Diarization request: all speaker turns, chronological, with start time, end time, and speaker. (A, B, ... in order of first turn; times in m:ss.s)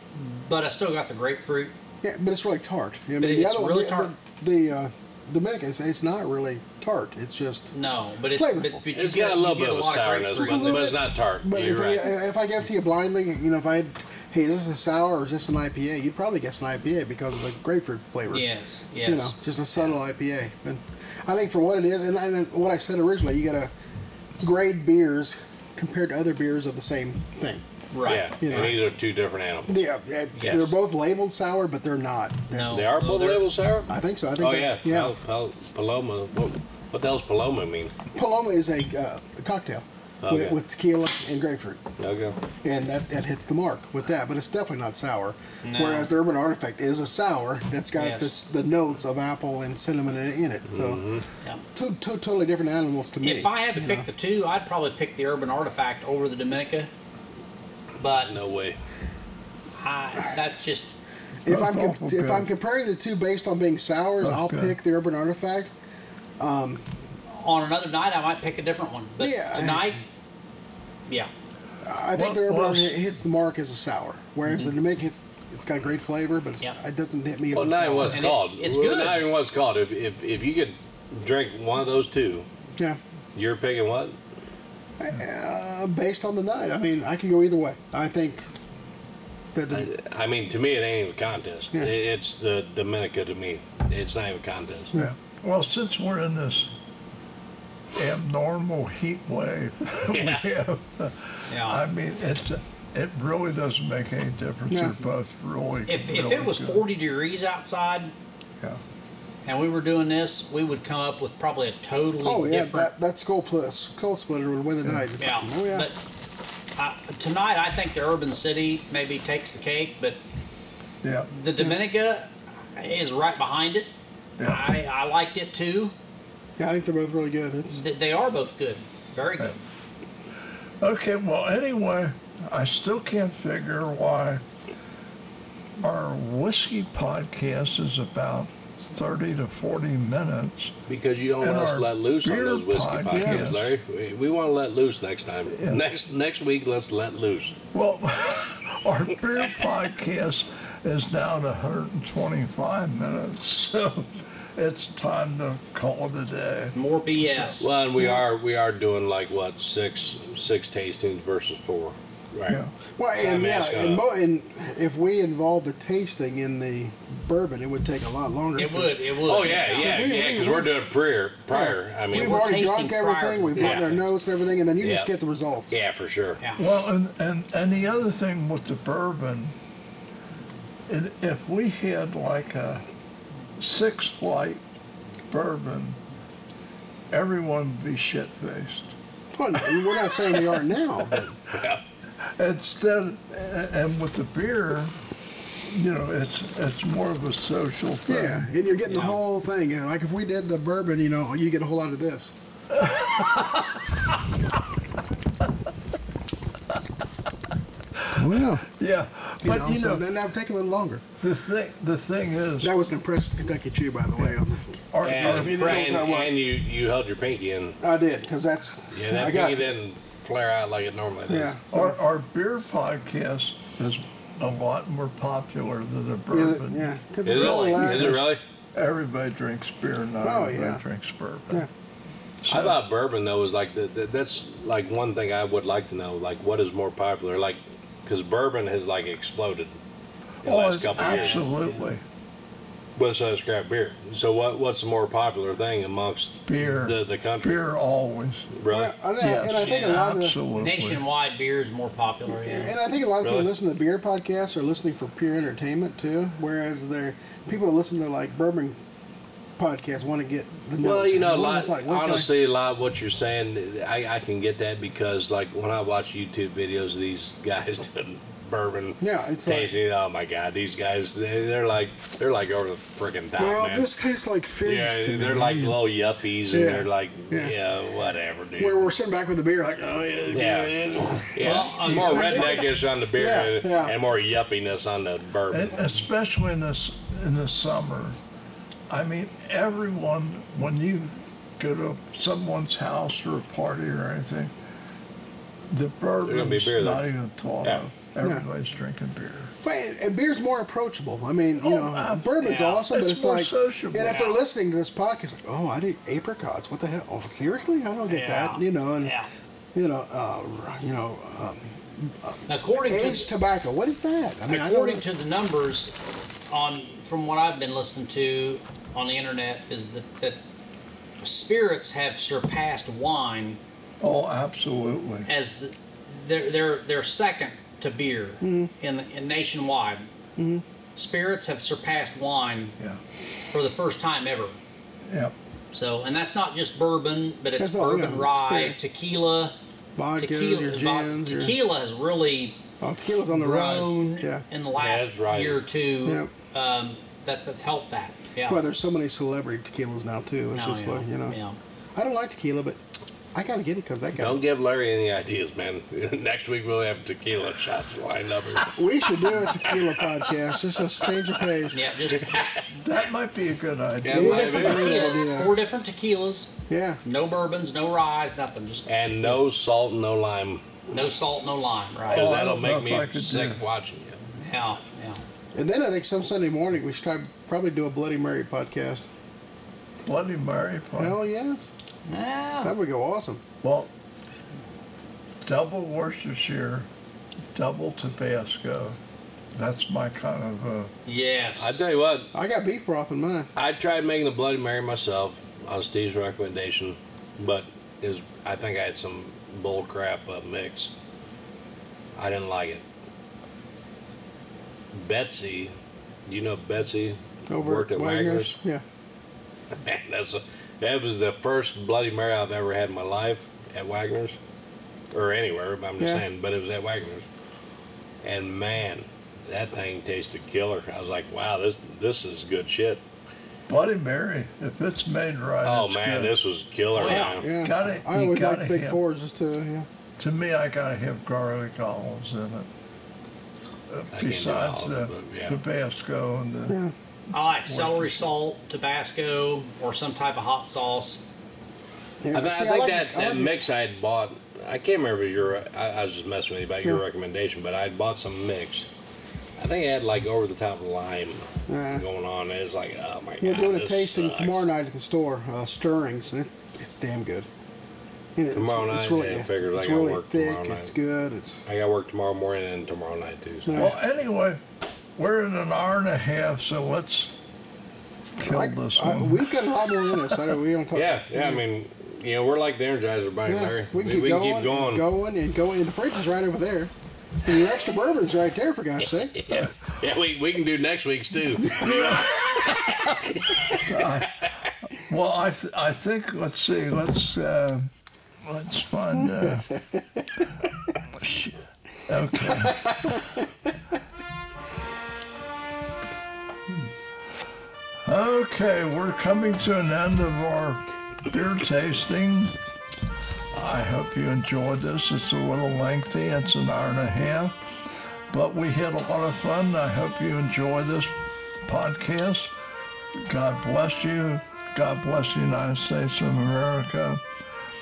0:00.1-0:01.7 A
0:02.0-0:07.7 B
0:03.2-0:04.1 A
0:07.7-0:10.9 A
0:08.3-0:08.8 B
0:08.9-0:12.1 C
0:10.3-0:18.4 B
0:18.3-0:19.3 A
0:19.0-0:23.7 B
0:24.4-0:27.6 B
0:27.9-0:28.3 A
0:28.0-0:29.8 C
0:28.2-0:28.8 B
0:29.7-0:32.9 B
0:30.4-0:30.7 A
0:30.4-0:30.7 C
0:32.5-0:33.4 A
0:32.7-0:37.9 C
0:33.9-0:35.1 B
0:38.1-0:41.8 B
0:40.2-0:40.6 C
0:42.0-0:42.4 C
0:42.6-0:51.0 B
0:45.6-0:46.1 A
0:48.0-0:48.3 A
0:50.7-0:51.2 C
0:51.7-0:54.1 B
0:53.2-0:56.9 A
0:58.0-0:58.4 A
0:58.0-0:58.8 C
0:59.8-1:01.0 A
1:01.4-1:05.7 B
1:01.5-1:02.5 D
1:04.2-1:04.7 D
1:06.4-1:06.9 B
1:07.3-1:10.0 A
1:09.2-1:09.9 B
1:11.8-1:18.2 B
1:12.1-1:13.0 D
1:17.5-1:22.4 C
1:18.1-1:19.2 A
1:23.3-1:24.2 C
1:25.0-1:28.5 B
1:29.5-1:29.9 B
1:29.7-1:35.0 C
1:34.9-1:36.7 D
1:37.9-1:46.8 D
1:40.1-1:40.5 C
1:41.5-1:41.8 A
1:44.7-1:45.0 B
1:45.9-1:48.1 A
1:49.4-1:52.9 A
1:52.2-1:55.9 B
1:55.2-1:56.0 A
1:56.8-2:00.2 A
2:01.0-2:01.3 D
2:01.3-2:03.9 A
2:04.4-2:05.9 A
2:06.6-2:07.8 B
2:07.7-2:09.6 A
2:10.8-2:14.4 D
2:15.8-2:20.7 D
2:20.9-2:27.6 C
2:21.4-2:23.7 D
2:23.1-2:23.5 B
2:25.5-2:25.8 D
2:27.7-2:37.6 D
2:36.7-2:37.7 A
2:37.6-2:42.6 C
2:43.0-2:50.8 B
2:43.2-2:44.0 C
2:48.6-2:50.0 A
2:49.2-2:52.4 C
2:51.5-2:55.7 B
2:52.1-2:54.0 A
2:53.6-2:53.9 C
2:54.8-2:55.1 C
2:55.7-2:56.4 C
2:56.6-2:59.5 D
3:00.9-3:02.8 D
3:03.6-3:04.6 D
3:05.3-3:06.0 D
3:07.1-3:08.9 D
3:09.3-3:11.3 B
3:11.5-3:11.8 C
3:12.2-3:15.0 D
3:15.6-3:18.5 D
3:18.1-3:22.3 B
3:18.9-3:19.2 A
3:22.7-3:24.2 D
3:28.0-3:30.0 D
3:28.2-3:28.6 B
3:29.4-3:31.0 B
3:31.2-3:32.7 D
3:32.6-3:36.4 B
3:34.9-3:36.1 D
3:35.0-3:37.8 C
3:37.8-3:39.7 B
3:38.9-3:41.5 C
3:41.3-3:42.0 B
3:41.7-3:46.8 D
3:46.3-3:48.4 B
3:47.2-3:48.4 C
3:47.6-3:51.7 D
3:50.2-3:50.8 B
3:52.4-3:59.8 C
3:52.4-3:52.8 D
4:00.4-4:01.5 C
4:00.4-4:02.0 D
4:01.0-4:01.9 A
4:03.0-4:07.6 C
4:06.4-4:08.5 D
4:08.5-4:08.9 C
4:08.7-4:10.4 B
4:09.2-4:11.0 D
4:09.6-4:10.0 A
4:10.6-4:12.7 A
4:12.3-4:18.8 B
4:13.2-4:13.5 C
4:19.6-4:22.3 B
4:20.8-4:33.9 C
4:29.0-4:29.7 B
4:33.4-4:35.8 B
4:34.6-4:38.8 C
4:36.5-4:37.5 B
4:38.6-4:41.6 B
4:40.3-4:45.8 C
4:41.4-4:42.6 A
4:41.8-4:42.6 D
4:43.1-4:43.9 B
4:45.5-4:48.2 D
4:48.9-4:54.5 D
4:55.7-4:59.5 D
4:56.2-4:57.1 C
4:59.6-5:09.1 B
5:01.6-5:04.2 D
5:02.4-5:02.8 A
5:04.0-5:04.4 A
5:08.1-5:09.3 A
5:09.7-5:15.0 B
5:12.5-5:13.3 A
5:14.5-5:20.4 A
5:21.2-5:23.6 A
5:24.0-5:25.3 D
5:25.2-5:30.1 A
5:28.4-5:28.7 B
5:30.4-5:30.6 B
5:31.0-5:32.8 A
5:33.5-5:34.6 A
5:35.0-5:35.3 D
5:35.7-5:39.5 A
5:37.6-5:38.8 B
5:40.0-5:41.5 B
5:40.2-5:42.6 A
5:42.8-5:44.4 B
5:43.3-5:48.6 A
5:44.8-5:45.6 C
5:46.0-5:46.3 B
5:48.4-5:51.4 B
5:50.5-5:51.6 A
5:51.9-5:52.8 B
5:53.3-5:54.4 B
5:54.2-6:00.3 C
5:58.7-6:01.9 B
6:01.4-6:02.7 C
6:01.7-6:02.5 A
6:02.8-6:05.0 D
6:04.0-6:05.1 C
6:04.1-6:05.5 B
6:04.2-6:06.5 A
6:06.7-6:07.0 B
6:07.0-6:09.4 A
6:08.9-6:10.6 C
6:10.9-6:12.3 A
6:12.1-6:14.2 C
6:12.1-6:13.6 D
6:14.4-6:15.2 A
6:15.5-6:19.1 B
6:20.0-6:21.2 D
6:21.0-6:21.7 B
6:22.1-6:22.7 A
6:22.6-6:23.4 B
6:23.6-6:23.9 D
6:25.4-6:26.9 D
6:27.5-6:29.0 D
6:29.5-6:30.9 D
6:31.0-6:31.8 A
6:31.6-6:32.3 C
6:32.3-6:33.5 B
6:33.6-6:40.9 C
6:42.2-6:42.8 C
6:44.9-6:45.7 C
6:46.3-6:48.5 C
6:47.5-6:48.8 B
6:49.8-6:54.4 C
6:55.1-6:57.3 C
6:58.2-7:03.0 C
7:03.7-7:06.3 D
7:05.6-7:07.5 C
7:06.9-7:07.4 A
7:07.0-7:09.9 B
7:07.6-7:09.0 D
7:10.2-7:12.7 D
7:13.9-7:16.8 D
7:14.1-7:15.6 C
7:16.7-7:16.9 B
7:17.3-7:18.3 D
7:17.3-7:21.2 A
7:22.2-7:23.5 B
7:22.3-7:28.9 C
7:29.6-7:34.7 C
7:31.7-7:32.0 B
7:33.4-7:37.5 B
7:38.4-7:41.6 B
7:38.5-7:40.9 C
7:41.7-7:43.9 C
7:43.6-7:44.0 B
7:43.7-7:44.6 D
7:45.2-7:47.3 D
7:48.4-7:50.5 D
7:48.4-7:51.6 B
7:50.9-7:55.0 C
7:53.4-7:59.5 B
7:59.3-8:04.1 C
8:01.7-8:02.5 D
8:03.7-8:07.9 D
8:08.4-8:09.8 D
8:11.0-8:13.3 D
8:18.0-8:22.6 D
8:23.5-8:27.6 D
8:28.3-8:32.6 D
8:33.2-8:37.2 D